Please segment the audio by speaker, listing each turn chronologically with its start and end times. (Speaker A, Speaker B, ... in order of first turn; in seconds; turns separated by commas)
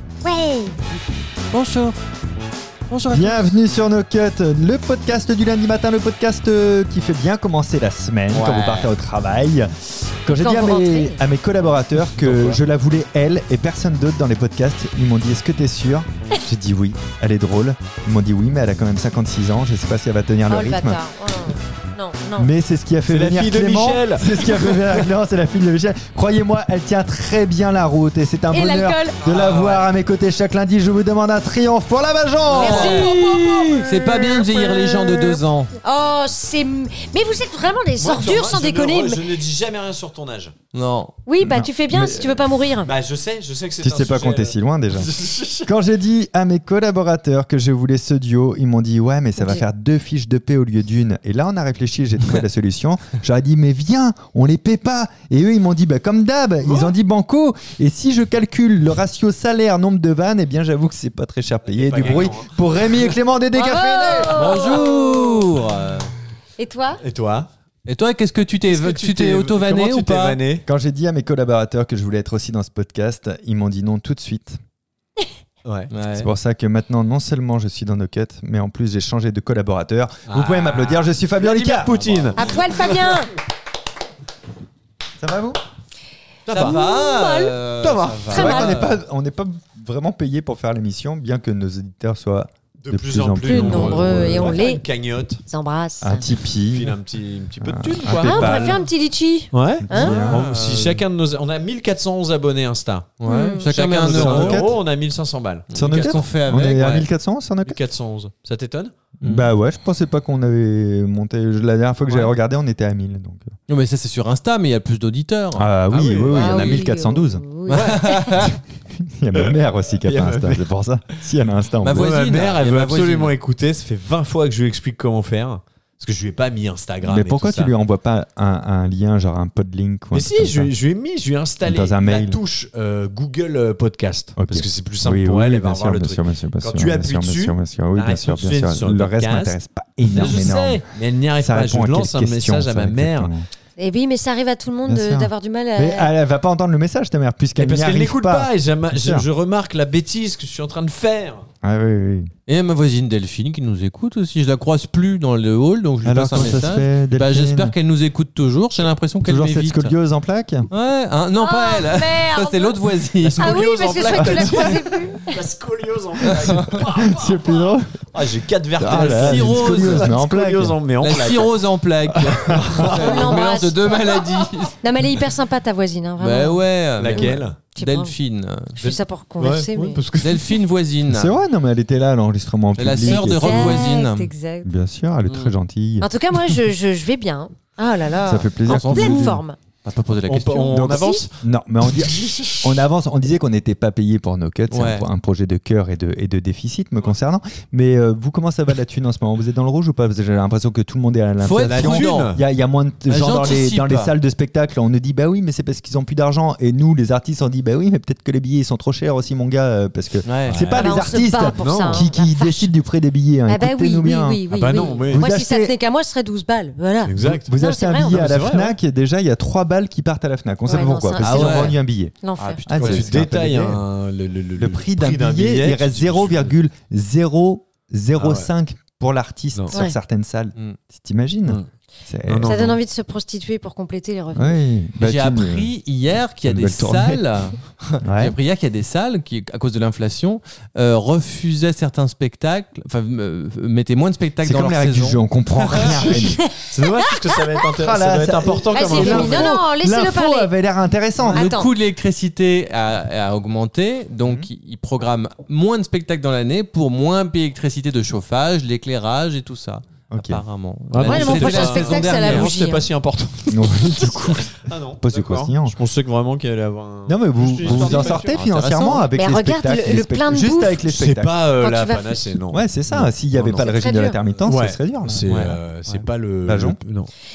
Speaker A: 0.2-0.8, Speaker B: 1.5-2.0, Speaker B: 2.9-3.5, Speaker C: 3.1-9.7, Speaker B: 8.3-8.9, Speaker C: 10.2-21.0, Speaker A: 10.3-11.2, Speaker A: 20.5-22.5, Speaker C: 22.4-35.4, Speaker D: 23.1-25.1, Speaker A: 28.5-29.2, Speaker D: 29.2-29.9, Speaker B: 32.5-35.7, Speaker A: 32.5-33.7, Speaker D: 33.5-33.8, Speaker A: 35.8-39.3, Speaker D: 38.0-40.5, Speaker B: 40.7-41.1, Speaker A: 41.3-42.9, Speaker C: 41.4-42.6, Speaker D: 42.8-45.7, Speaker C: 43.8-64.6, Speaker A: 49.4-49.6, Speaker D: 56.6-56.9, Speaker D: 61.7-63.1, Speaker A: 63.5-65.4, Speaker B: 64.3-66.1, Speaker A: 66.6-67.0, Speaker D: 67.0-67.5, Speaker B: 67.8-70.4, Speaker D: 68.7-70.7, Speaker C: 70.7-74.6, Speaker D: 75.6-76.3, Speaker B: 75.9-76.3, Speaker C: 76.2-82.3, Speaker D: 80.2-83.2, Speaker A: 82.3-83.3, Speaker C: 85.2-85.6, Speaker D: 86.5-86.8, Speaker B: 86.5-88.8, Speaker A: 86.6-87.6, Speaker D: 87.8-88.9, Speaker A: 88.3-88.8, Speaker C: 88.3-94.6, Speaker D: 92.8-95.4, Speaker A: 93.4-94.8, Speaker B: 93.5-94.1, Speaker A: 95.4-96.2, Speaker C: 96.0-97.0, Speaker D: 96.7-98.8, Speaker C: 97.6-98.8, Speaker A: 98.1-100.2, Speaker D: 99.5-103.2, Speaker C: 99.8-100.5, Speaker B: 100.0-101.0, Speaker B: 103.2-104.7, Speaker A: 103.2-103.7, Speaker D: 103.7-107.1, Speaker C: 104.1-104.8, Speaker B: 105.7-106.9, Speaker C: 105.8-107.8, Speaker D: 107.7-108.9, Speaker B: 109.2-109.5, Speaker C: 109.2-113.5, Speaker D: 112.1-112.3, Speaker B: 113.7-115.7, Speaker C: 115.5-117.5, Speaker D: 115.9-116.7, Speaker A: 116.3-118.3, Speaker B: 116.4-116.8, Speaker D: 117.7-118.5, Speaker B: 117.7-118.5, Speaker C: 118.3-122.2, Speaker D: 119.4-120.7, Speaker B: 121.8-123.3, Speaker D: 121.9-127.7, Speaker C: 127.0-130.7, Speaker D: 130.1-143.3, Speaker C: 131.6-132.4, Speaker C: 134.4-140.9, Speaker C: 141.4-143.5, Speaker A: 143.8-146.1, Speaker C: 144.9-149.2, Speaker D: 147.6-151.5, Speaker C: 151.6-152.3, Speaker B: 152.5-159.9, Speaker C: 156.0-157.8, Speaker C: 159.2-160.7, Speaker B: 160.7-163.6, Speaker A: 161.4-162.8, Speaker D: 163.2-167.6, Speaker A: 163.4-165.3, Speaker C: 164.2-164.7, Speaker B: 166.4-166.8, Speaker C: 166.5-168.0, Speaker D: 168.1-171.6, Speaker C: 168.8-170.8, Speaker B: 168.8-170.2, Speaker B: 171.0-174.8, Speaker C: 172.2-172.8, Speaker D: 172.4-173.4, Speaker A: 173.0-174.0, Speaker A: 174.8-176.6, Speaker B: 176.2-178.8, Speaker D: 177.0-177.6, Speaker A: 177.1-178.2, Speaker A: 178.8-180.0, Speaker D: 178.8-180.6, Speaker B: 180.2-181.4, Speaker C: 181.1-183.9, Speaker B: 182.8-184.3, Speaker A: 183.1-184.7, Speaker C: 184.6-186.1, Speaker A: 186.0-189.6, Speaker C: 188.2-189.4, Speaker B: 188.7-190.9, Speaker D: 190.3-192.7, Speaker C: 190.7-215.7, Speaker A: 190.9-191.2, Speaker B: 194.7-195.1, Speaker B: 201.4-202.4, Speaker D: 201.6-202.4, Speaker B: 203.1-204.1, Speaker B: 210.2-210.6, Speaker D: 210.5-212.1, Speaker A: 210.7-212.7, Speaker A: 213.5-218.2, Speaker D: 214.5-215.2, Speaker D: 217.1-218.8, Speaker C: 217.2-223.8, Speaker A: 220.7-222.7, Speaker B: 221.2-221.8, Speaker B: 222.4-223.2, Speaker D: 222.8-226.6, Speaker C: 224.6-232.8, Speaker D: 228.2-228.5, Speaker D: 232.3-232.8, Speaker A: 232.4-234.6, Speaker C: 234.3-235.7, Speaker B: 235.0-246.0, Speaker C: 236.4-237.2, Speaker C: 238.0-238.3, Speaker C: 244.4-246.4, Speaker D: 245.7-249.6, Speaker C: 247.8-251.5, Speaker A: 248.7-250.5, Speaker B: 251.3-262.5, Speaker A: 251.3-251.7, Speaker C: 254.2-254.5, Speaker C: 260.1-260.4, Speaker D: 260.9-268.4, Speaker A: 261.0-262.9, Speaker C: 263.5-265.8, Speaker C: 267.1-271.4, Speaker B: 267.6-269.1, Speaker A: 269.1-270.8, Speaker D: 270.9-273.7, Speaker A: 271.6-272.3, Speaker C: 272.5-275.2, Speaker A: 273.5-274.2, Speaker D: 274.4-277.1, Speaker B: 275.2-276.0, Speaker C: 276.4-276.8